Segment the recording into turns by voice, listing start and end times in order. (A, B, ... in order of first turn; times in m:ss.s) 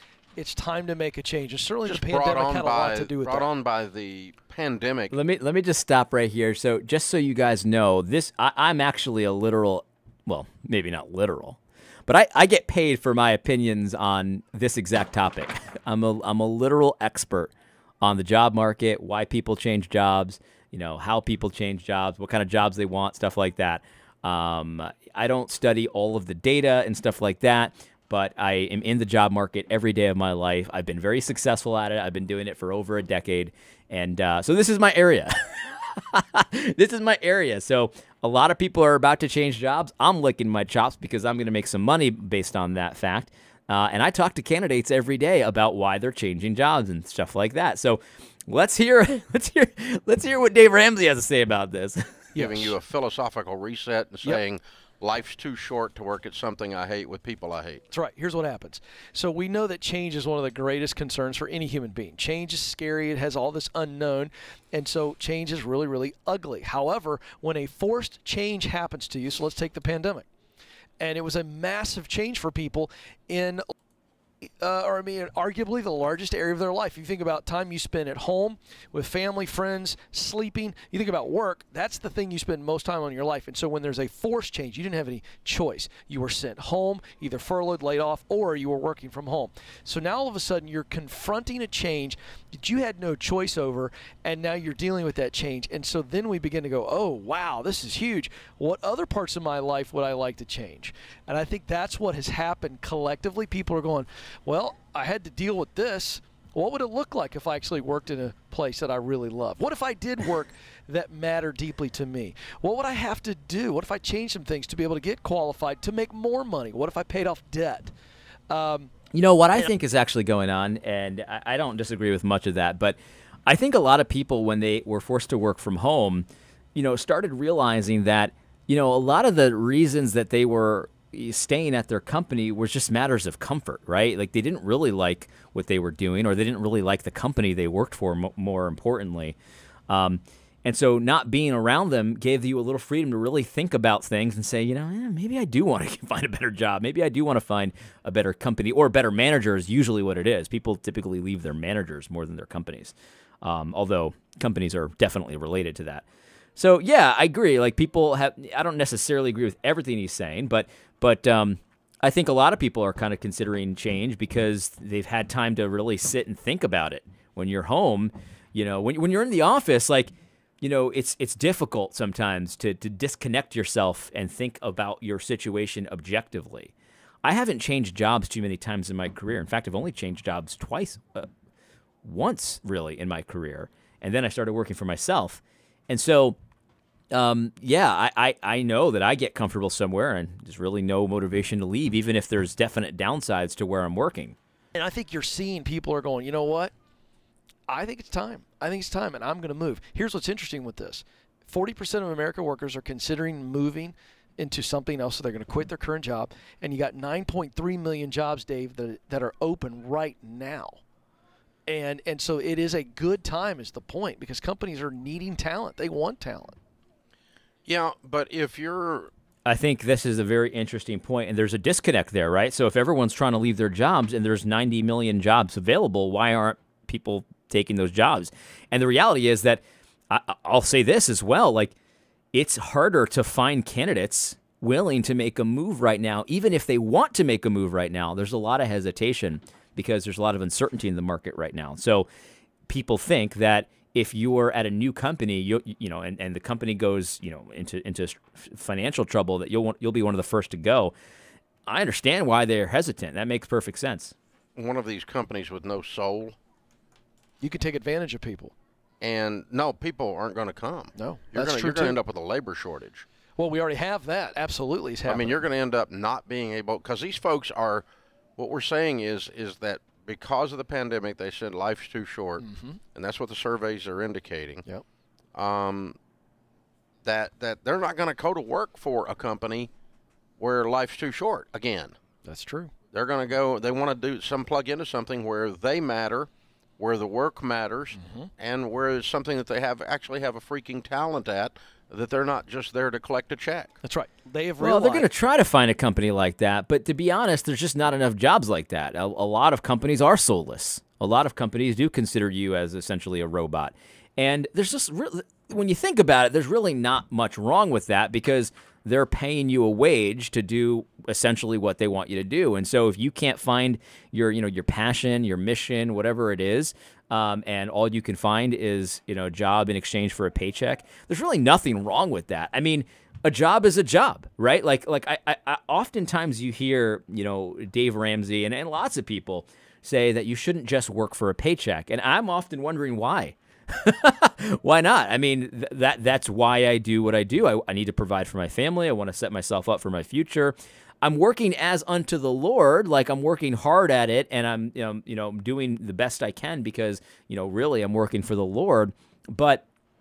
0:00.4-0:03.5 A
0:01.8-0:05.1 B
0:05.1-0:52.2 C
0:52.3-0:52.8 A
0:52.4-0:57.8 B
0:57.9-1:10.3 A
1:11.0-1:13.6 A
1:14.4-1:57.9 A
1:58.5-1:58.9 A
1:59.1-2:19.4 C
2:19.9-2:36.0 C
2:36.6-2:56.7 C
2:57.2-3:01.3 C
3:02.0-3:06.4 C
3:07.1-3:14.4 C
3:14.7-3:16.7 A
3:17.7-3:30.8 A
3:31.7-3:36.6 A
3:37.6-3:39.1 B
3:39.4-3:51.7 C
3:52.3-4:02.1 C
4:02.7-4:10.9 C
4:11.7-4:14.1 C
4:14.6-4:16.4 B
4:17.4-4:18.5 A
4:19.0-4:23.0 B
4:21.0-4:22.0 A
4:23.4-4:25.4 A
4:25.1-4:27.8 B
4:28.4-4:34.6 B
4:32.4-4:32.8 A
4:35.3-4:36.0 B
4:37.0-4:39.7 B
4:40.4-4:42.0 B
4:42.2-4:42.7 A
4:42.9-4:53.8 B
4:48.0-4:48.3 A
4:53.8-4:55.1 A
4:54.6-5:49.6 C